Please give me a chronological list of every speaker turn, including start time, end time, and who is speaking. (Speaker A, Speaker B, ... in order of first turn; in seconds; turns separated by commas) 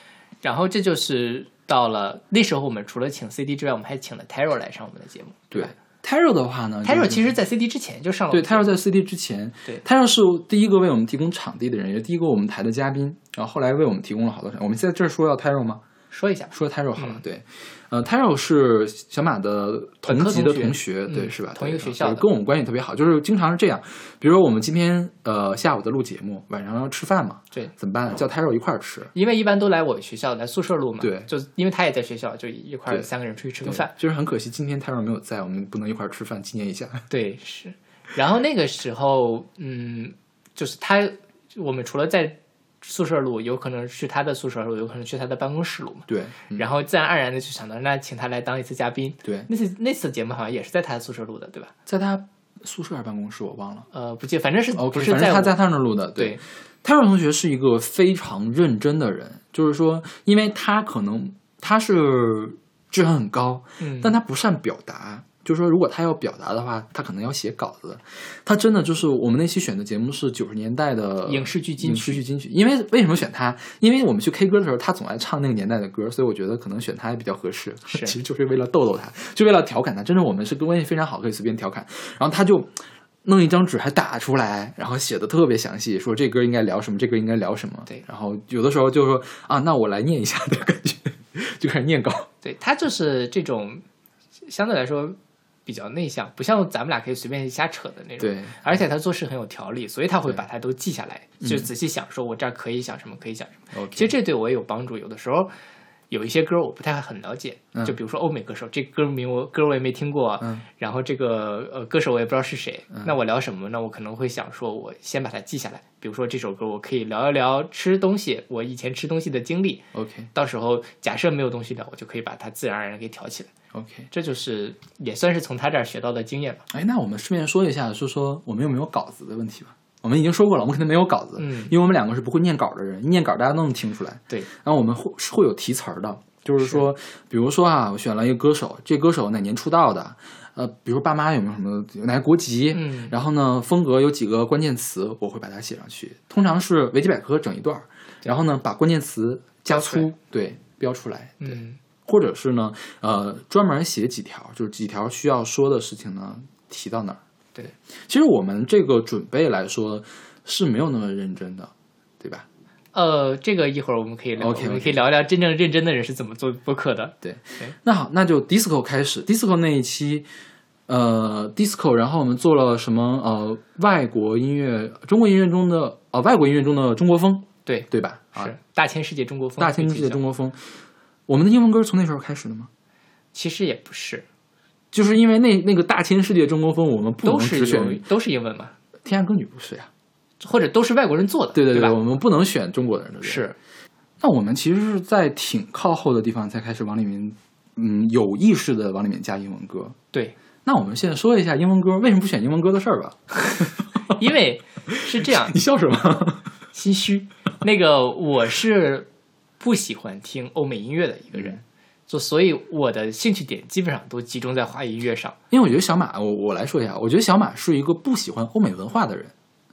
Speaker A: 0.4-5.7, Speaker B: 5.5-7.3, Speaker A: 6.8-8.7, Speaker B: 8.3-15.8, Speaker A: 16.1-17.2, Speaker B: 16.5-29.1, Speaker A: 20.1-22.2, Speaker A: 29.1-33.9, Speaker B: 31.0-31.3, Speaker B: 33.6-37.0, Speaker A: 37.1-51.7, Speaker B: 46.1-46.6, Speaker B: 51.9-53.9, Speaker A: 53.9-55.6, Speaker B: 54.7-92.3, Speaker A: 63.8-64.1, Speaker A: 71.2-72.2, Speaker A: 77.9-78.1, Speaker A: 92.4-93.8, Speaker A: 94.4-105.5, Speaker B: 98.2-98.8, Speaker B: 101.4-101.7, Speaker B: 103.7-104.1, Speaker A: 106.1-123.5, Speaker B: 119.9-120.3, Speaker B: 123.7-124.1, Speaker A: 124.1-126.6, Speaker B: 126.7-157.2, Speaker A: 131.4-131.7, Speaker A: 142.7-143.1, Speaker A: 149.7-150.1, Speaker A: 151.4-151.8, Speaker B: 158.1-162.4, Speaker A: 162.9-167.7, Speaker B: 164.4-165.0, Speaker B: 167.2-170.2, Speaker B: 170.9-178.5, Speaker A: 177.7-180.2, Speaker B: 179.6-180.7, Speaker B: 181.3-182.7, Speaker A: 183.3-184.2, Speaker B: 184.9-188.0, Speaker A: 187.2-188.7, Speaker B: 189.0-189.9, Speaker A: 190.4-192.0, Speaker B: 191.5-193.4, Speaker A: 193.2-193.6, Speaker B: 194.2-200.0, Speaker B: 200.6-203.7, Speaker A: 204.1-205.6, Speaker B: 204.9-206.5, Speaker A: 206.7-209.1, Speaker A: 209.6-215.4, Speaker B: 215.5-219.3